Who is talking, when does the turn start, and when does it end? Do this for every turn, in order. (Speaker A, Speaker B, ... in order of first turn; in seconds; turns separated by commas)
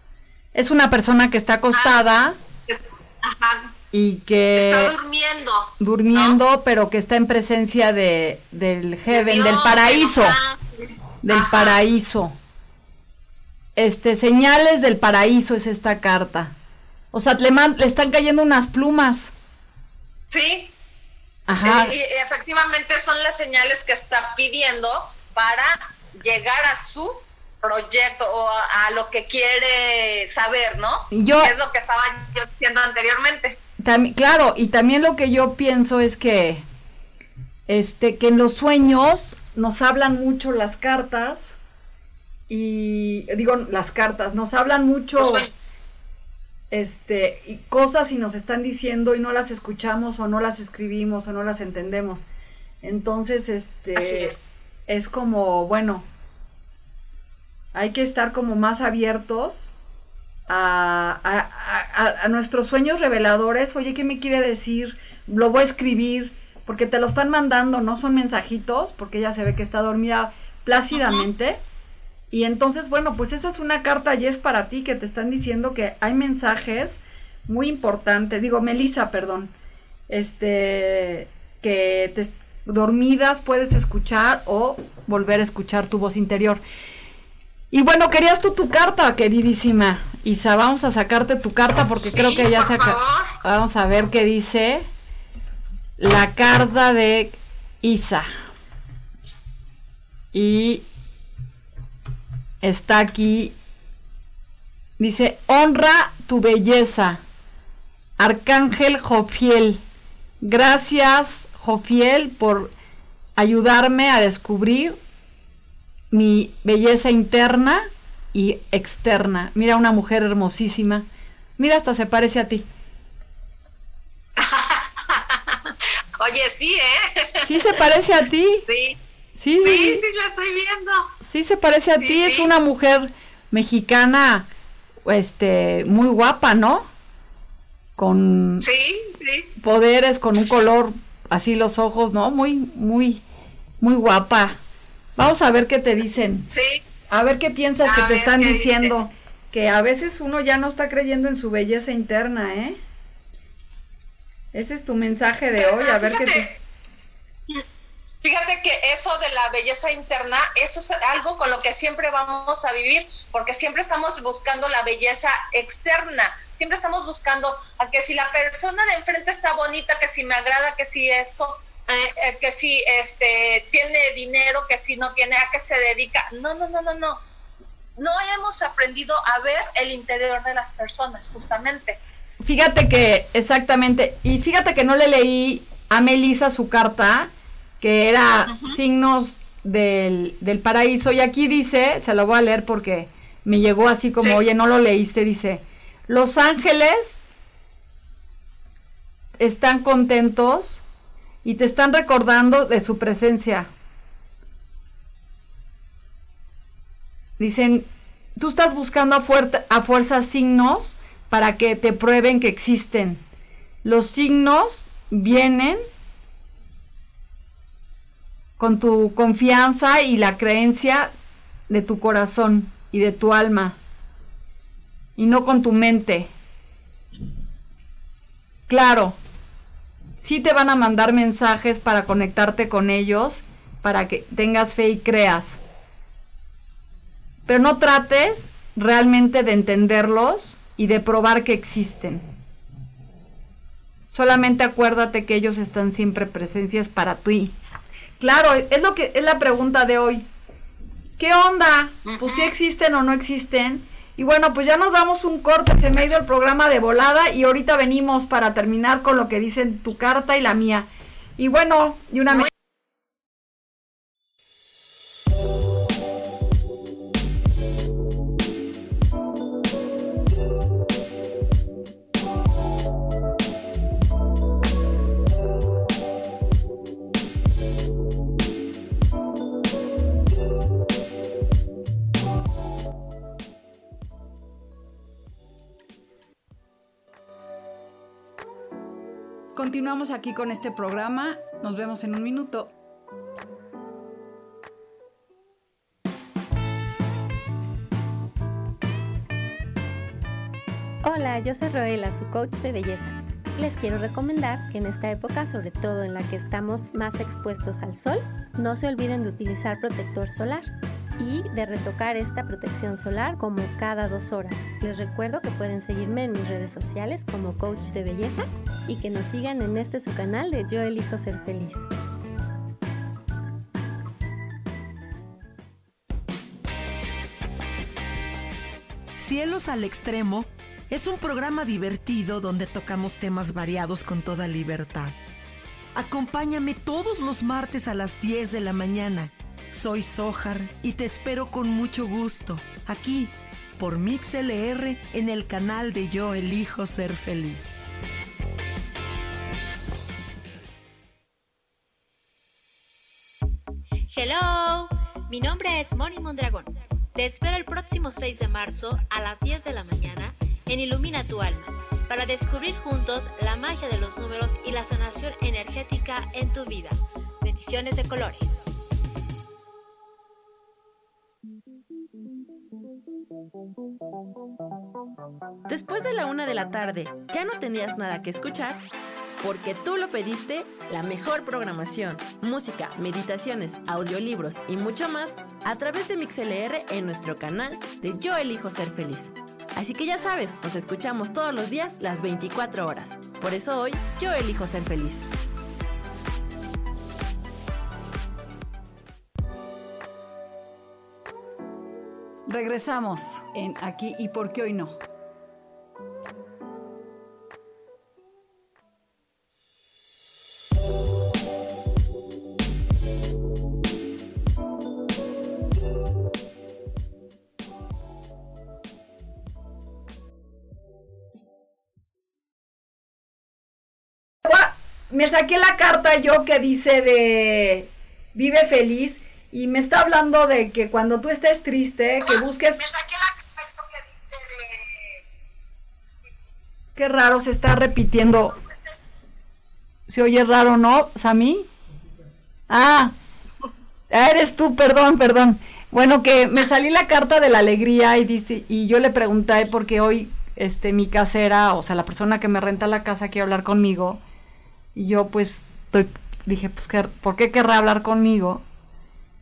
Speaker A: 0.5-2.4, Speaker B: 1.7-2.0, Speaker B: 2.7-3.7, Speaker A: 3.9-4.9, Speaker B: 4.5-6.4, Speaker A: 5.8-10.3, Speaker B: 9.1-11.8, Speaker A: 11.2-12.3, Speaker A: 13.8-16.5, Speaker A: 17.1-19.3, Speaker B: 20.3-20.7, Speaker A: 21.5-21.9, Speaker B: 21.6-33.6, Speaker A: 31.1-31.5, Speaker A: 33.8-36.6, Speaker A: 37.7-41.5, Speaker A: 42.5-45.5, Speaker B: 45.2-45.5, Speaker A: 46.7-52.3, Speaker A: 52.8-54.3, Speaker B: 54.0-54.4, Speaker A: 54.9-56.0, Speaker A: 57.7-59.7, Speaker A: 60.5-71.6, Speaker B: 71.0-71.2, Speaker A: 72.3-79.5, Speaker A: 80.1-86.6, Speaker A: 87.7-94.8, Speaker B: 92.1-93.3, Speaker A: 96.0-98.3, Speaker A: 100.3-100.8, Speaker A: 102.6-103.5, Speaker A: 105.0-107.2, Speaker A: 108.2-109.8, Speaker A: 110.4-112.7, Speaker A: 113.3-115.0, Speaker A: 116.1-121.0, Speaker A: 121.6-122.6, Speaker B: 124.4-127.6, Speaker A: 127.4-128.7, Speaker B: 128.7-129.0, Speaker A: 129.4-130.0, Speaker B: 129.6-131.1, Speaker A: 131.2-134.4, Speaker B: 132.0-132.5, Speaker A: 135.1-136.9, Speaker A: 138.0-138.6, Speaker B: 138.6-139.5, Speaker A: 139.6-143.2, Speaker A: 143.8-144.6, Speaker A: 145.2-146.5, Speaker B: 146.5-146.8, Speaker A: 147.1-152.8, Speaker B: 147.8-148.9, Speaker A: 154.5-156.5, Speaker B: 155.6-156.6, Speaker B: 158.2-177.2, Speaker B: 178.0-182.0, Speaker A: 182.4-197.2, Speaker B: 188.5-188.8, Speaker A: 199.4-200.8, Speaker A: 201.4-203.7, Speaker A: 207.4-213.2, Speaker A: 213.8-215.8, Speaker A: 218.6-221.1, Speaker A: 221.7-223.8, Speaker A: 225.2-226.3, Speaker A: 228.7-229.2, Speaker A: 230.2-235.6, Speaker A: 237.5-242.2, Speaker A: 244.1-247.5, Speaker A: 248.2-250.2, Speaker A: 251.2-262.5, Speaker B: 252.1-252.5, Speaker A: 289.6-292.7, Speaker C: 301.0-321.9, Speaker D: 329.2-335.2, Speaker D: 335.9-347.8, Speaker E: 354.1-368.6, Speaker F: 375.6-378.8, Speaker F: 379.4-395.3, Speaker A: 402.5-405.0, Speaker A: 424.4-432.9, Speaker B: 432.9-434.8, Speaker A: 436.9-438.6, Speaker A: 440.1-441.7, Speaker A: 442.7-443.1, Speaker A: 444.1-454.2, Speaker A: 454.9-458.6